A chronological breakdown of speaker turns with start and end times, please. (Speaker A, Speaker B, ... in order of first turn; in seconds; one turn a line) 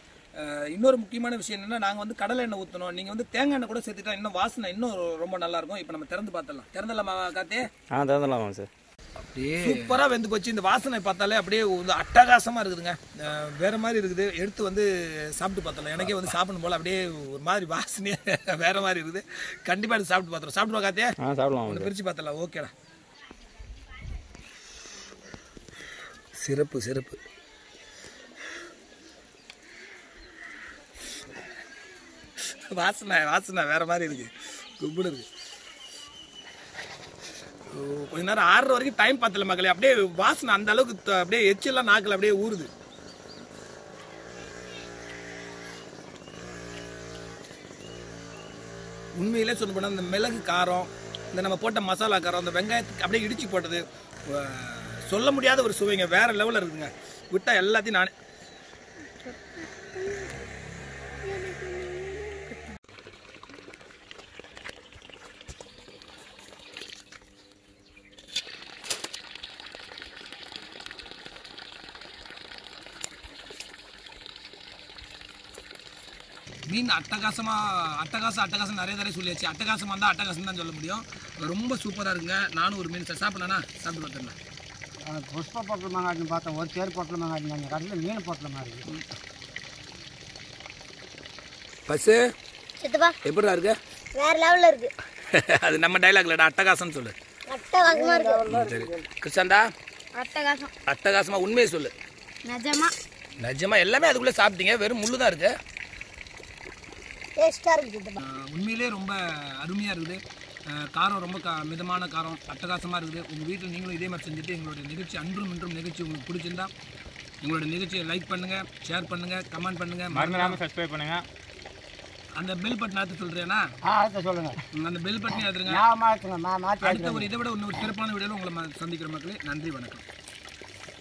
Speaker A: 0.4-7.7
Speaker B: 7.9-8.7
Speaker A: 9.2-21.1
Speaker B: 21.2-21.9
Speaker A: 21.7-22.7
Speaker A: 26.4-27.2
Speaker A: 32.4-35.3
Speaker A: 37.7-42.7
Speaker A: 49.2-58.1
Speaker C: 59.2-60.3
Speaker C: 61.2-62.7
Speaker A: 76.7-84.4
Speaker D: 85.1-88.9
Speaker A: 91.9-92.2
Speaker C: 92.8-93.2
Speaker A: 93.2-93.8
Speaker C: 94.2-94.9
Speaker A: 95.3-97.2
Speaker C: 97.5-98.6
Speaker D: 97.9-99.1
Speaker A: 98.5-99.7
Speaker C: 100.2-100.7
Speaker A: 100.9-101.9
Speaker C: 102.5-102.9
Speaker A: 103.4-105.5
Speaker C: 107.4-108.2
Speaker A: 108.2-116.7
Speaker A: 117.4-120.6
Speaker B: 120.1-121.2
Speaker A: 122.4-123.6
Speaker D: 123.9-124.6
Speaker A: 124.7-125.8
Speaker D: 125.7-127.3
Speaker A: 126.8-130.1